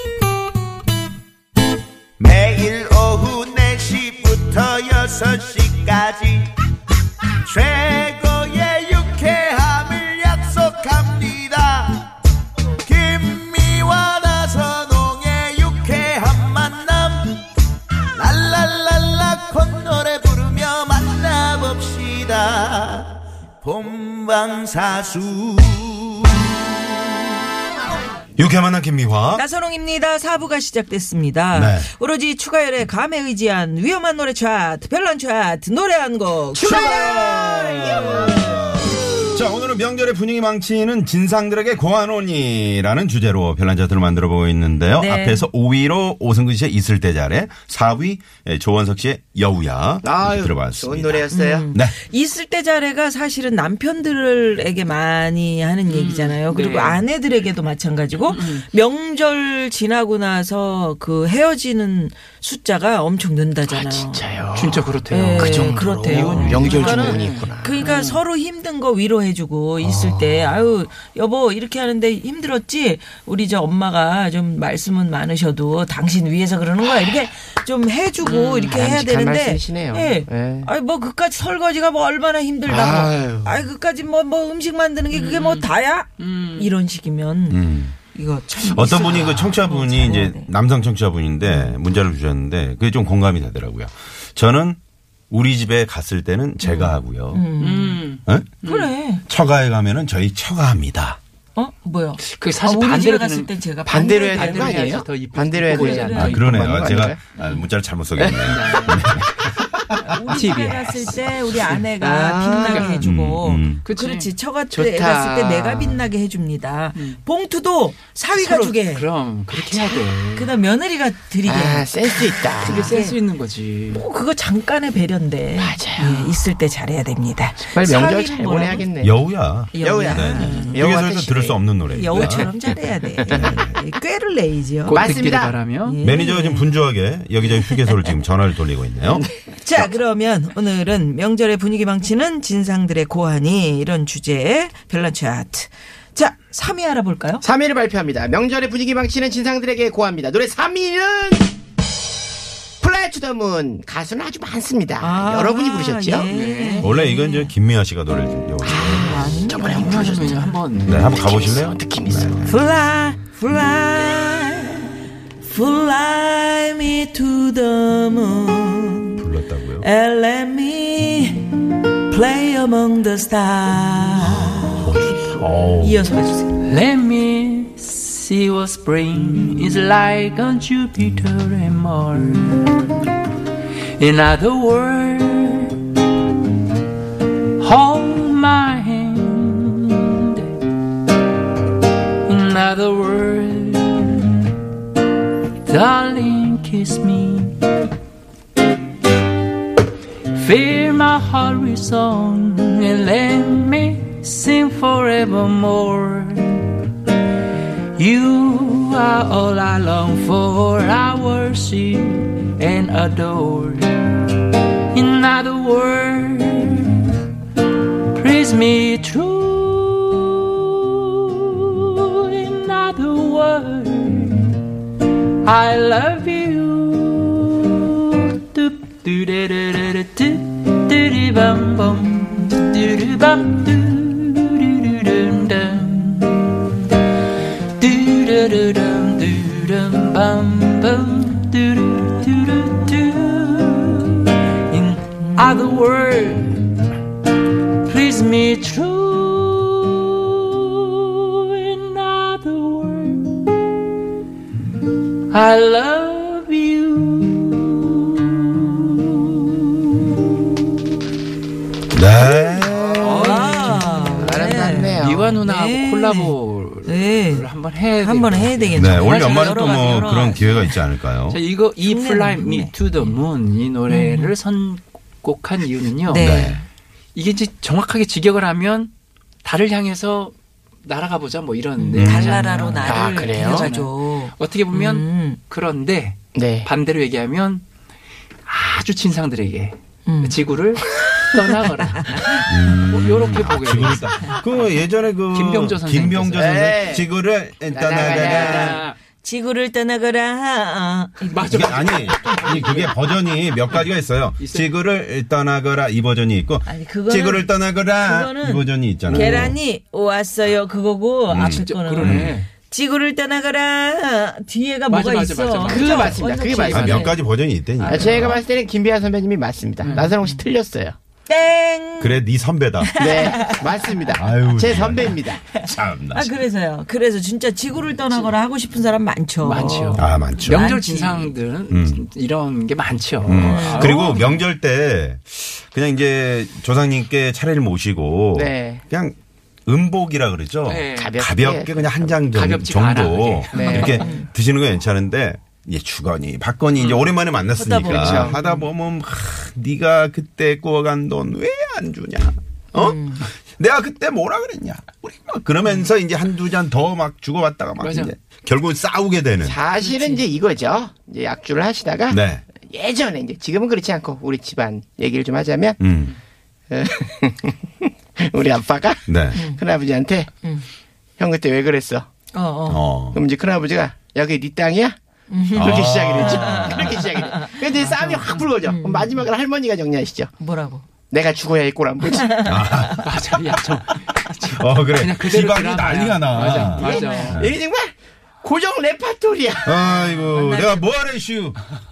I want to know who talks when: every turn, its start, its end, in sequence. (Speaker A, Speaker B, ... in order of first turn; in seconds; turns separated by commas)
Speaker A: 2.2-6.5, Speaker A: 7.4-12.1, Speaker A: 12.8-17.4, Speaker A: 18.1-26.4, Speaker B: 28.4-29.4, Speaker C: 29.3-36.8, Speaker B: 31.5-31.9, Speaker D: 36.5-39.1, Speaker B: 36.6-51.9, Speaker C: 45.0-45.5, Speaker D: 50.0-51.7, Speaker C: 51.3-64.2, Speaker E: 55.9-57.0, Speaker E: 58.3-58.6, Speaker D: 63.7-67.8, Speaker E: 64.5-68.2, Speaker C: 65.1-90.5, Speaker D: 69.8-70.6, Speaker E: 78.2-78.8, Speaker D: 78.6-80.7, Speaker D: 82.7-83.6, Speaker E: 85.1-85.7, Speaker E: 86.2-86.7, Speaker B: 87.5-88.0, Speaker B: 88.6-94.8, Speaker C: 91.5-91.8, Speaker B: 95.3-97.5, Speaker C: 96.6-98.0, Speaker E: 97.6-98.9, Speaker B: 98.2-98.5, Speaker C: 98.6-99.2, Speaker B: 99.2-101.2, Speaker C: 101.5-105.0, Speaker E: 102.2-103.5, Speaker D: 103.8-107.2, Speaker E: 104.2-106.9, Speaker C: 105.7-106.4, Speaker B: 106.2-109.4, Speaker D: 108.2-109.2, Speaker E: 108.4-109.5, Speaker C: 110.0-119.0, Speaker E: 110.2-111.2, Speaker D: 111.5-113.0, Speaker E: 112.5-113.0, Speaker B: 112.9-113.8, Speaker E: 113.8-114.3, Speaker D: 114.7-116.0, Speaker E: 118.3-120.5, Speaker C: 119.9-123.2, Speaker D: 121.4-123.0, Speaker E: 122.6-124.0, Speaker C: 123.9-128.9, Speaker D: 125.6-126.4, Speaker D: 127.6-129.1, Speaker B: 129.0-132.5, Speaker C: 129.7-130.9, Speaker D: 129.8-131.6, Speaker C: 131.9-135.1, Speaker D: 133.2-133.6, Speaker B: 133.3-133.7, Speaker E: 134.9-136.0, Speaker D: 134.9-135.6, Speaker C: 135.8-136.7, Speaker B: 136.0-139.9, Speaker C: 137.7-138.1, Speaker C: 139.4-147.4, Speaker D: 147.4-151.5, Speaker D: 152.8-156.3, Speaker C: 155.0-157.5, Speaker E: 156.3-156.9, Speaker B: 156.8-159.3, Speaker C: 158.6-160.5, Speaker D: 158.6-162.4, Speaker E: 159.6-161.1, Speaker B: 160.8-162.6, Speaker C: 162.4-169.2, Speaker B: 169.2-169.9, Speaker C: 169.8-171.6, Speaker C: 172.1-174.9, Speaker B: 174.2-176.0, Speaker C: 175.8-176.6, Speaker E: 176.6-182.8, Speaker E: 184.0-185.8, Speaker E: 187.6-190.6, Speaker E: 192.2-194.5, Speaker E: 195.6-197.6, Speaker E: 200.3-206.8, Speaker E: 207.9-214.2, Speaker E: 214.9-217.1, Speaker E: 218.1-224.7, Speaker E: 225.4-236.6, Speaker E: 237.8-246.7, Speaker E: 247.8-253.5, Speaker E: 255.3-260.8, Speaker B: 261.9-263.0, Speaker C: 262.2-266.3, Speaker D: 262.6-265.4, Speaker E: 263.0-270.3, Speaker C: 266.8-267.5, Speaker C: 268.0-270.8, Speaker B: 268.7-271.4, Speaker E: 271.3-276.4, Speaker C: 271.8-273.1, Speaker C: 273.9-274.3, Speaker C: 276.0-276.6, Speaker B: 276.2-276.6, Speaker E: 277.1-278.9, Speaker E: 279.4-287.6, Speaker C: 281.8-285.4, Speaker B: 281.9-282.4, Speaker D: 282.8-283.7, Speaker D: 286.3-286.7, Speaker E: 288.4-294.4, Speaker C: 290.1-290.4, Speaker C: 291.9-292.4, Speaker B: 292.5-298.8, Speaker E: 295.3-296.7, Speaker D: 296.4-297.1, Speaker D: 297.7-298.8, Speaker E: 297.9-299.0, Speaker C: 299.2-302.0, Speaker E: 301.2-303.0, Speaker B: 301.5-309.6, Speaker E: 303.7-304.7, Speaker C: 306.6-317.2, Speaker B: 311.3-312.4, Speaker E: 311.4-312.5, Speaker E: 314.9-316.7, Speaker D: 315.6-317.1, Speaker B: 316.6-318.4, Speaker C: 317.8-318.4, Speaker D: 317.8-320.9, Speaker E: 319.8-320.2, Speaker C: 319.9-320.4, Speaker C: 321.3-322.2, Speaker B: 322.0-323.0, Speaker C: 322.8-331.4, Speaker D: 323.0-325.4, Speaker B: 324.1-326.4, Speaker E: 329.4-334.4, Speaker B: 329.9-330.6, Speaker B: 331.7-332.0, Speaker B: 333.2-339.1, Speaker C: 333.4-334.0, Speaker D: 338.3-338.8, Speaker B: 339.6-359.6, Speaker E: 340.6-341.2, Speaker D: 341.0-342.1, Speaker E: 342.3-344.0, Speaker D: 343.5-344.1, Speaker C: 343.5-344.3, Speaker E: 346.8-347.1, Speaker C: 347.5-348.7, Speaker D: 347.8-348.3, Speaker C: 352.7-353.3, Speaker E: 357.8-358.1, Speaker D: 359.4-365.8, Speaker C: 359.8-360.2, Speaker B: 362.1-362.4, Speaker B: 365.8-366.2, Speaker D: 366.7-370.3, Speaker B: 369.1-369.4, Speaker C: 369.3-369.6, Speaker D: 371.2-372.1, Speaker C: 372.3-372.9, Speaker B: 372.7-373.2, Speaker D: 373.1-375.0, Speaker C: 375.3-377.7, Speaker B: 375.5-377.0, Speaker D: 375.5-380.3, Speaker E: 377.8-378.5, Speaker C: 378.6-379.2, Speaker C: 380.4-380.9, Speaker D: 381.1-382.5, Speaker C: 382.1-383.0, Speaker B: 382.4-383.6, Speaker E: 383.0-387.4, Speaker B: 384.5-387.6, Speaker C: 386.6-387.4, Speaker D: 386.8-389.7, Speaker B: 389.6-391.6, Speaker C: 389.8-391.1